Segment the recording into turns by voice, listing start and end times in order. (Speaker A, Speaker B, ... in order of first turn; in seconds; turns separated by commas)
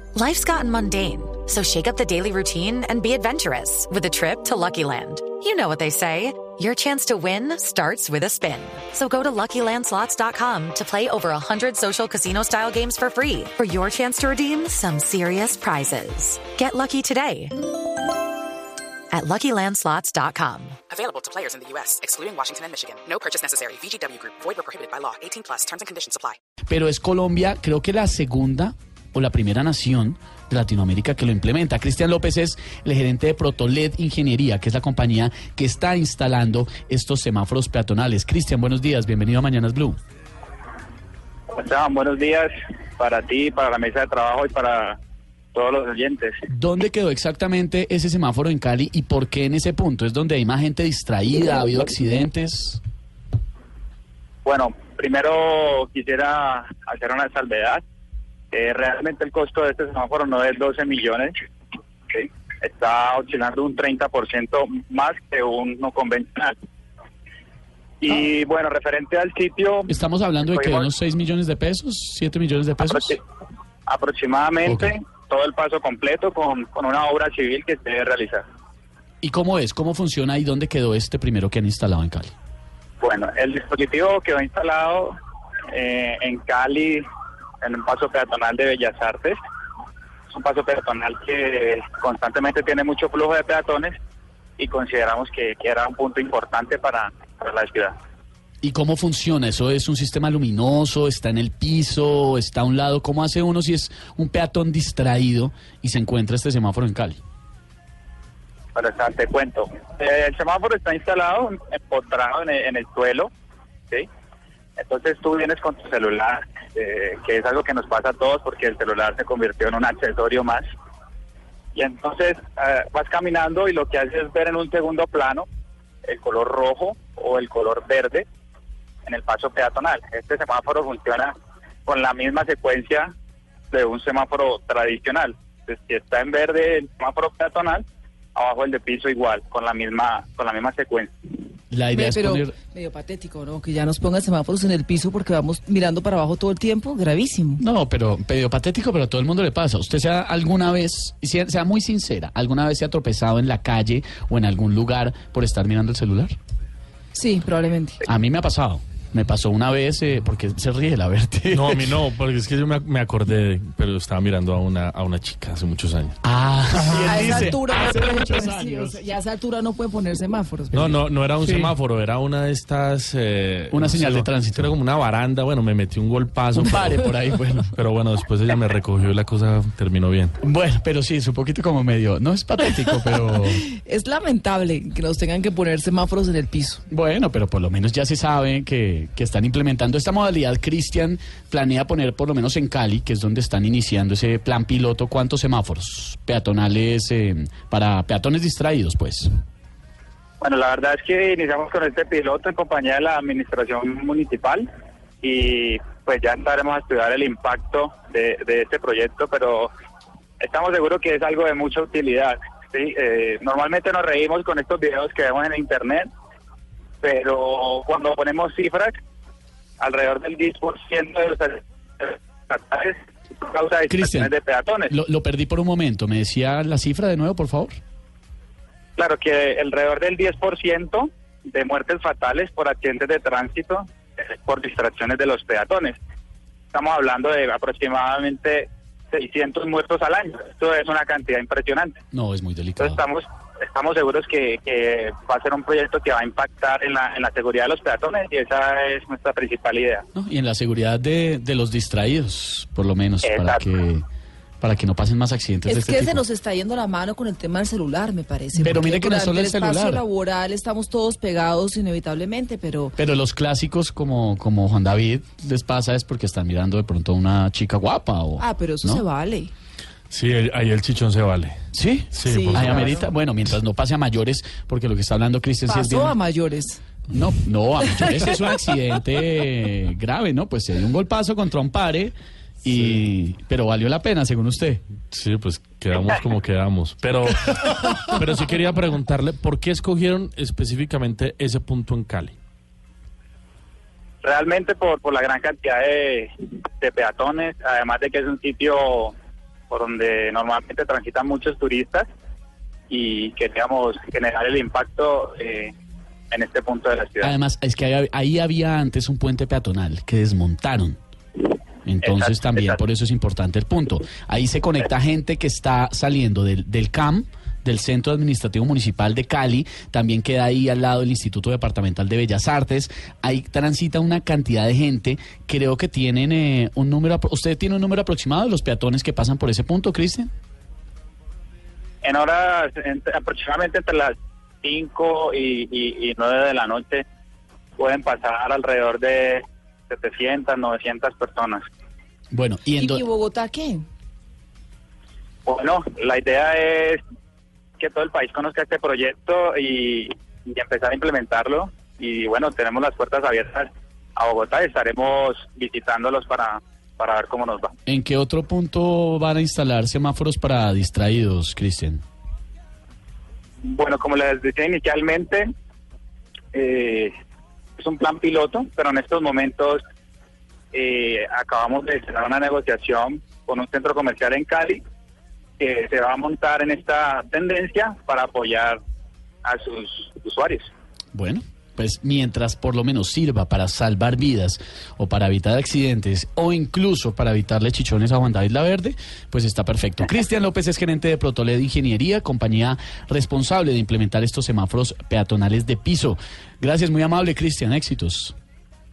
Speaker A: 0.1-17.6, Speaker A: 19.1-20.8, Speaker B: 20.9-26.4, Speaker C: 26.7-40.0, Speaker D: 41.5-45.0, Speaker D: 45.5-46.3, Speaker C: 46.5-52.8, Speaker D: 54.5-57.8, Speaker D: 58.5-61.4, Speaker D: 62.1-66.5, Speaker D: 68.0-69.9, Speaker C: 69.9-73.2, Speaker D: 70.5-70.9, Speaker D: 72.9-73.2, Speaker D: 73.9-78.4, Speaker C: 74.6-74.9, Speaker C: 79.2-82.3, Speaker D: 83.0-85.1, Speaker D: 85.7-87.0, Speaker D: 87.6-89.4, Speaker D: 90.3-93.9, Speaker D: 94.6-97.9, Speaker C: 98.6-107.2, Speaker D: 108.7-113.3, Speaker D: 114.8-120.7, Speaker D: 121.7-125.5, Speaker D: 126.0-128.3, Speaker D: 129.1-131.3, Speaker D: 131.9-133.1, Speaker D: 133.7-141.1, Speaker C: 141.7-142.6, Speaker E: 141.9-147.6, Speaker C: 147.6-156.4, Speaker E: 157.1-158.0, Speaker C: 158.0-162.0, Speaker F: 161.5-166.2, Speaker C: 166.2-169.0, Speaker F: 166.7-167.5, Speaker E: 166.9-171.0, Speaker F: 170.7-177.1, Speaker C: 171.4-171.7, Speaker C: 173.7-174.7, Speaker C: 176.6-177.7, Speaker F: 177.7-180.4, Speaker C: 180.4-183.6, Speaker E: 183.3-186.8, Speaker C: 186.9-199.3, Speaker D: 200.4-204.7, Speaker D: 205.2-209.7, Speaker D: 210.4-216.1, Speaker D: 217.0-219.0, Speaker D: 219.8-224.9, Speaker C: 223.9-224.3, Speaker C: 224.9-227.8, Speaker D: 229.0-236.0, Speaker D: 236.7-242.0, Speaker C: 242.1-243.0, Speaker D: 242.8-250.1, Speaker C: 250.2-254.1, Speaker D: 253.2-253.6, Speaker C: 254.6-256.2, Speaker E: 255.7-262.9, Speaker C: 258.6-260.0, Speaker C: 263.0-269.0, Speaker E: 268.4-269.5, Speaker F: 270.1-271.6, Speaker C: 271.7-276.2, Speaker F: 272.1-272.6, Speaker E: 272.2-273.1, Speaker E: 275.7-276.8, Speaker C: 277.1-284.8, Speaker F: 282.7-283.0, Speaker F: 285.1-292.4, Speaker D: 294.2-299.1, Speaker D: 299.7-302.1, Speaker D: 302.9-305.7, Speaker D: 306.3-307.4, Speaker C: 307.2-311.0, Speaker C: 311.9-330.3, Speaker D: 312.0-312.8, Speaker D: 332.0-337.1, Speaker D: 337.8-341.6, Speaker C: 342.3-343.1, Speaker E: 342.8-343.8, Speaker D: 345.4-347.0, Speaker D: 347.8-357.7, Speaker C: 357.9-362.0, Speaker D: 363.6-365.5, Speaker D: 366.5-367.1, Speaker D: 367.8-369.8, Speaker D: 370.7-374.8, Speaker D: 375.6-378.8, Speaker D: 379.4-380.7, Speaker C: 381.1-398.3